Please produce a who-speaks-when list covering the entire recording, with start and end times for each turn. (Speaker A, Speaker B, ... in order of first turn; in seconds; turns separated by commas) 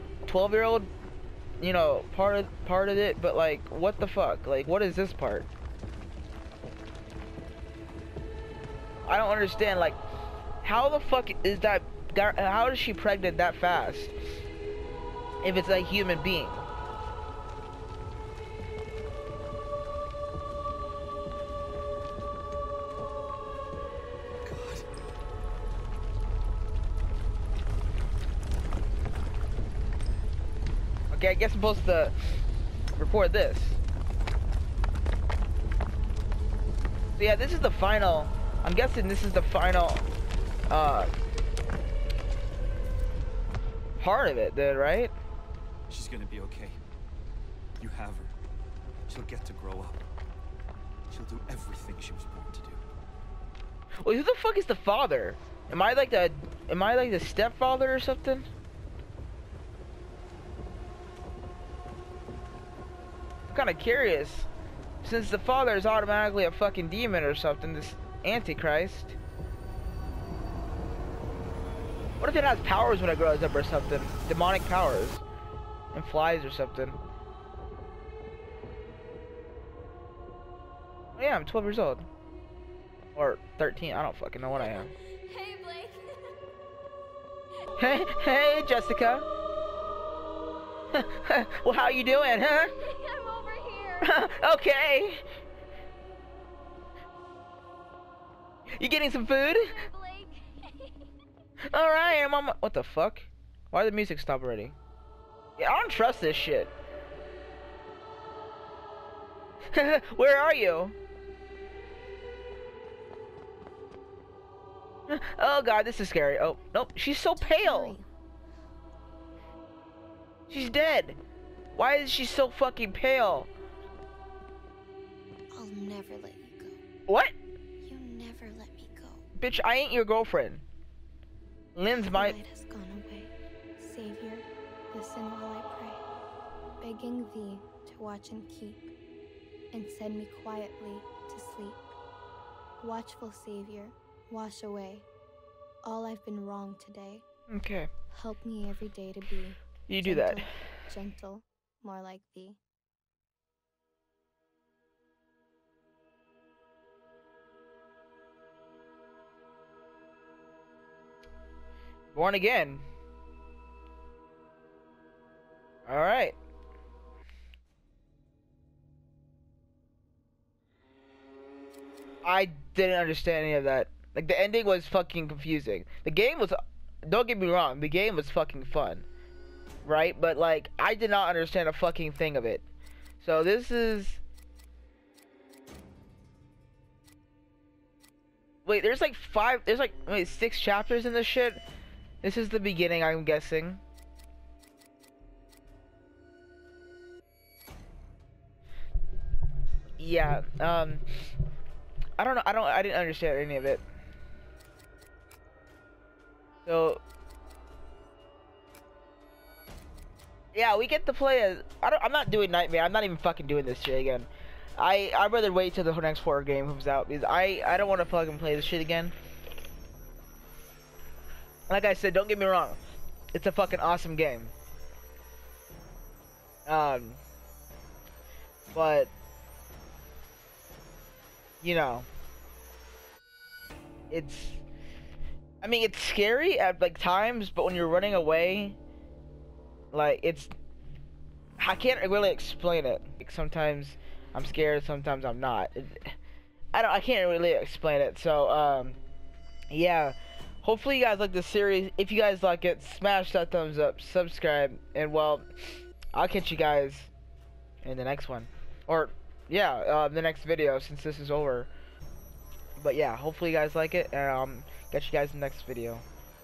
Speaker A: 0.2-0.9, Speaker A: 1.6-5.5, Speaker A: 9.1-10.0, Speaker A: 10.6-14.1, Speaker A: 15.4-16.6, Speaker B: 24.4-24.9, Speaker A: 31.1-32.1, Speaker A: 32.9-33.8, Speaker A: 37.2-40.0, Speaker A: 40.7-41.1, Speaker A: 44.0-45.1, Speaker B: 45.9-46.8, Speaker B: 47.8-48.3, Speaker B: 49.1-50.0, Speaker B: 51.1-52.8, Speaker A: 54.0-58.5, Speaker A: 63.5-64.5, Speaker A: 65.0-69.2, Speaker A: 72.2-75.2, Speaker A: 75.9-77.0, Speaker A: 81.2-82.1, Speaker A: 83.2-84.9, Speaker C: 85.3-86.3, Speaker A: 87.8-89.2, Speaker A: 90.9-92.7, Speaker D: 92.9-93.7, Speaker C: 93.0-94.1, Speaker A: 94.0-95.2, Speaker A: 98.7-99.9, Speaker D: 99.9-100.3, Speaker C: 100.0-100.3, Speaker A: 101.6-104.7, Speaker A: 105.6-106.7, Speaker A: 109.7-110.9, Speaker A: 115.1-118.0, Speaker D: 117.4-118.1, Speaker A: 120.5-121.2, Speaker A: 121.7-123.5, Speaker D: 125.5-126.8, Speaker A: 127.1-127.3, Speaker D: 127.8-129.2, Speaker A: 129.4-130.6, Speaker A: 131.7-132.4, Speaker D: 132.1-136.1, Speaker D: 136.8-138.9, Speaker D: 139.7-141.9, Speaker D: 142.8-145.1, Speaker D: 145.8-147.2, Speaker A: 147.5-147.9, Speaker D: 148.1-152.6, Speaker A: 149.9-150.5, Speaker A: 162.1-162.8, Speaker A: 165.8-166.3, Speaker A: 172.2-179.0, Speaker A: 179.8-182.6, Speaker A: 183.2-184.2, Speaker A: 188.6-191.6, Speaker A: 192.2-193.8, Speaker A: 200.0-201.0, Speaker A: 202.2-203.8, Speaker A: 206.6-207.0, Speaker A: 210.5-219.1, Speaker A: 221.7-222.8, Speaker A: 223.3-224.5, Speaker A: 226.7-227.2, Speaker A: 228.7-229.1, Speaker A: 231.6-232.1, Speaker A: 234.1-234.6, Speaker A: 235.6-238.8, Speaker A: 239.9-240.5, Speaker A: 241.6-246.2, Speaker A: 246.7-249.0, Speaker A: 249.7-257.1, Speaker A: 257.8-261.7, Speaker A: 262.8-266.0